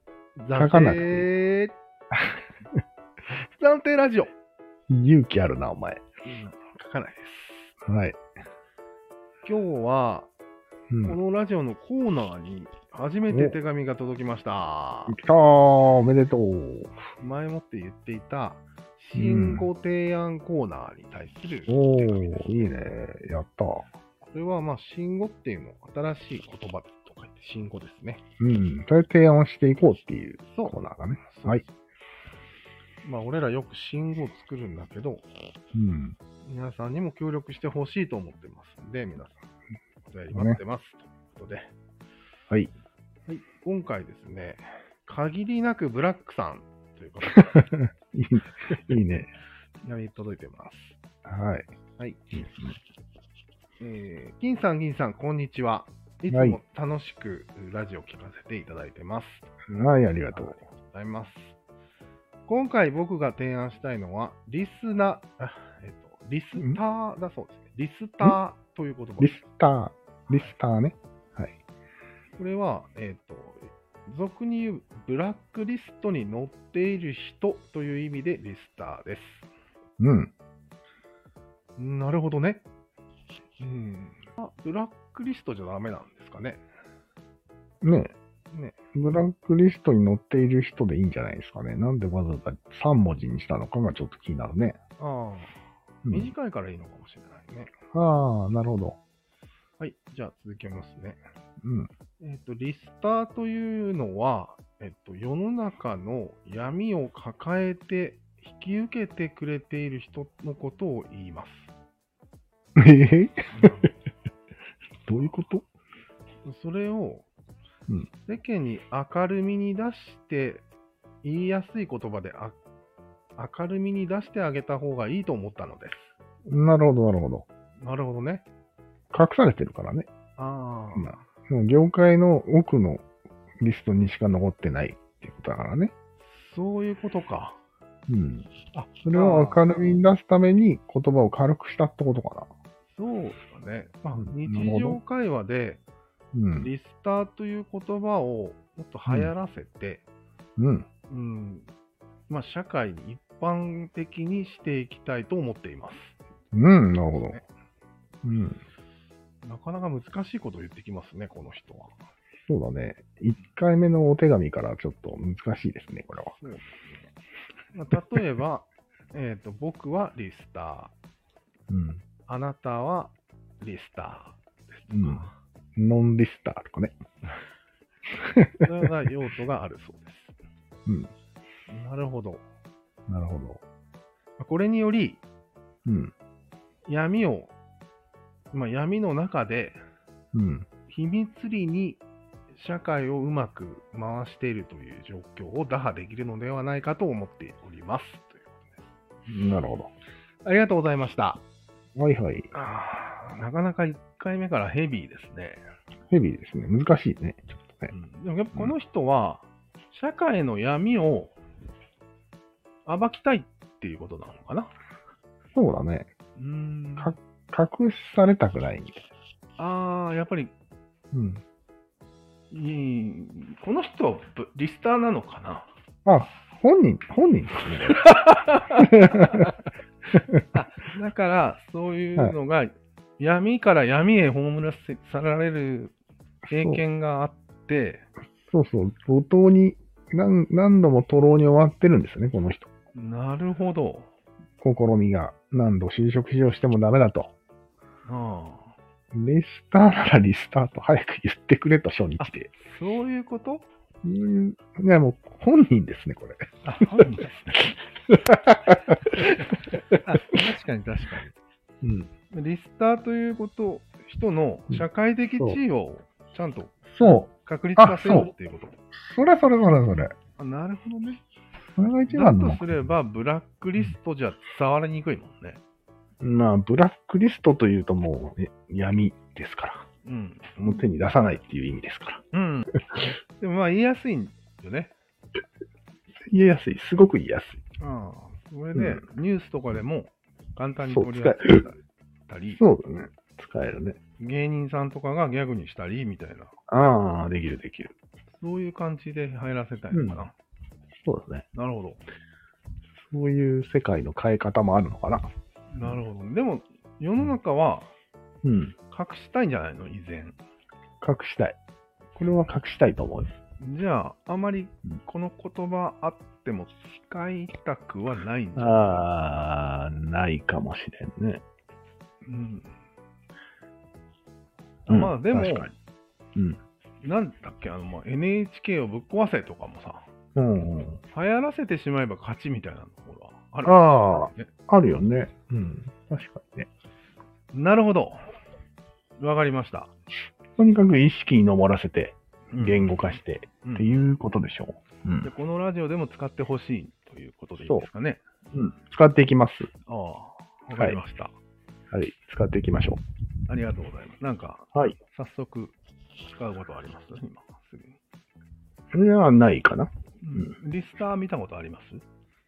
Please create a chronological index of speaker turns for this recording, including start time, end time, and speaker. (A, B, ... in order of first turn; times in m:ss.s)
0:00.4-0:01.7 A
0:00.5-0:01.3 B
0:03.6-0:04.3 A
0:04.9-0:06.0 B
0:06.2-0:07.7 A
0:07.8-0:08.2 B
0:09.4-0:10.3 A
0:10.9-0:11.2 B
0:11.0-0:15.2 A
0:13.3-0:13.6 B
0:15.1-0:17.0 B
0:17.2-0:22.7 A
0:19.1-0:19.7 B
0:21.7-0:23.9 B
0:24.2-0:28.2 A
0:28.4-0:31.6 B
0:30.5-0:31.7 A
0:33.0-0:35.2 A
0:35.7-0:36.2 B
0:36.4-0:39.5 A
0:40.1-0:41.7 A
0:40.3-0:40.6 B
0:43.3-0:47.6 A
0:47.3-0:49.3 B
0:49.8-0:51.0 A
0:51.2-0:51.7 B
0:52.3-0:52.8 B
0:53.8-0:59.5 A
0:56.3-0:56.6 B
0:59.7-1:00.6 B
1:00.3-1:01.5 A
1:02.5-1:09.4 A
1:09.2-1:11.6 B
1:12.4-1:19.5 A
1:20.0-1:20.3 B
1:21.8-1:22.6 A
1:23.6-1:26.6 A
1:27.8-1:28.1 B
1:28.5-1:28.8 A
1:28.9-1:34.8 B
1:35.0-1:35.5 A
1:36.0-1:36.3 B
1:36.1-1:37.7 A
1:37.9-1:39.0 B
1:39.8-1:41.2 A
1:41.6-1:41.9 B
1:42.2-1:51.7 A
1:52.8-1:53.4 B
1:53.5-1:53.9 A
1:55.0-1:55.6 B
1:56.4-1:57.3 A
1:58.2-2:00.6 A
2:01.2-2:02.6 A
2:03.4-2:06.1 A
2:06.5-2:07.4 B
2:07.8-2:08.4 A
2:09.1-2:10.1 B
2:10.4-2:11.2 A
2:10.9-2:13.0 B
2:13.6-2:15.9 B
2:16.2-2:17.6 A
2:18.1-2:22.5 B
2:18.7-2:19.6 A
2:22.9-2:25.8 A
2:24.1-2:25.0 B
2:26.3-2:26.7 B
2:26.6-2:30.0 A
2:29.0-2:29.3 B
2:30.6-2:30.9 B
2:31.1-2:31.7 A
2:32.3-2:36.2 A
2:36.5-2:37.4 B
2:37.1-2:37.5 A
2:38.2-2:38.6 B
2:39.4-2:41.9 A
2:42.5-2:46.3 B
2:46.4-2:47.1 A
2:47.7-2:50.9 A
2:51.7-2:52.0 B
2:52.2-2:55.3 A
2:54.9-2:56.9 B
2:58.2-2:58.7 B
2:58.6-3:00.3 A
3:00.8-3:01.1 B
3:01.7-3:02.4 A
3:03.1-3:03.6 B
3:04.4-3:05.2 A
3:05.8-3:06.1 B
3:06.9-3:07.5 A
3:08.5-3:09.8 A
3:10.3-3:10.7 B
3:10.9-3:12.0 A
3:12.5-3:18.9 A
3:19.3-3:19.9 B
3:20.4-3:21.4 A
3:22.0-3:22.5 B
3:22.5-3:25.6 A
3:26.1-3:27.9 B
3:27.9-3:31.3 A
3:32.8-3:34.7 A
3:35.5-3:36.1 B
3:36.4-3:37.2 A
3:37.0-3:39.0 B
3:39.6-3:40.5 A
3:41.1-3:41.4 B
3:42.5-3:45.7 A
3:46.0-3:48.0 B
3:47.9-3:49.5 A
3:48.8-3:49.5 B
3:50.2-3:50.4 B
3:50.5-3:55.9 A
3:56.5-3:56.8 B
3:56.5-3:58.0 A
3:58.4-4:02.7 B
4:02.9-4:04.1 A
4:04.6-4:07.3 B
4:08.0-4:08.7 A
4:09.1-4:12.5 B
4:12.2-4:13.6 A
4:14.0-4:17.0 B
4:16.6-4:17.6 A
4:18.1-4:19.4 B
4:20.0-4:21.4 A
4:21.8-4:22.1 B
4:22.3-4:28.8 A
4:26.9-4:28.3 B
4:28.9-4:30.1 B
4:30.4-4:31.2 A
4:31.8-4:32.6 B
4:32.1-4:35.6 A
4:36.2-4:39.8 B
4:40.0-4:40.6 A
4:40.6-4:42.2 B
4:42.3-4:42.8 A
4:43.4-4:44.9 A
4:46.2-4:47.6 B
4:47.8-4:52.6 A
4:48.7-4:49.0 B
4:50.8-4:51.7 B
4:52.5-4:54.0 B
4:54.2-4:56.5 A
4:56.7-4:57.9 B
4:58.3-5:00.3 A
4:59.9-5:00.2 B
5:01.0-5:01.4 B
5:01.5-5:02.0 A
5:03.0-5:05.2 B
5:05.7-5:07.9 A
5:08.4-5:08.7 B
5:08.9-5:10.4 A
5:11.0-5:11.6 B
5:12.2-5:13.3 B
5:13.6-5:19.0 A
5:18.6-5:21.4 B
5:22.2-5:22.7 A
5:24.9-5:25.7 A
5:24.9-5:25.7 B
5:27.0-5:30.1 A
5:30.3-5:31.0 B
5:31.1-5:34.5 A
5:33.6-5:36.7 B
5:37.5-5:38.2 A
5:39.2-5:39.9 A
5:40.6-5:45.3 B
5:42.5-5:43.9 A
5:45.2-5:48.2 A
5:48.5-5:49.7 B
5:49.8-5:51.3 A
5:51.9-5:53.0 B
5:53.5-5:55.7 A
5:56.2-5:58.0 A
5:58.9-6:00.5 B
6:00.2-6:02.0 A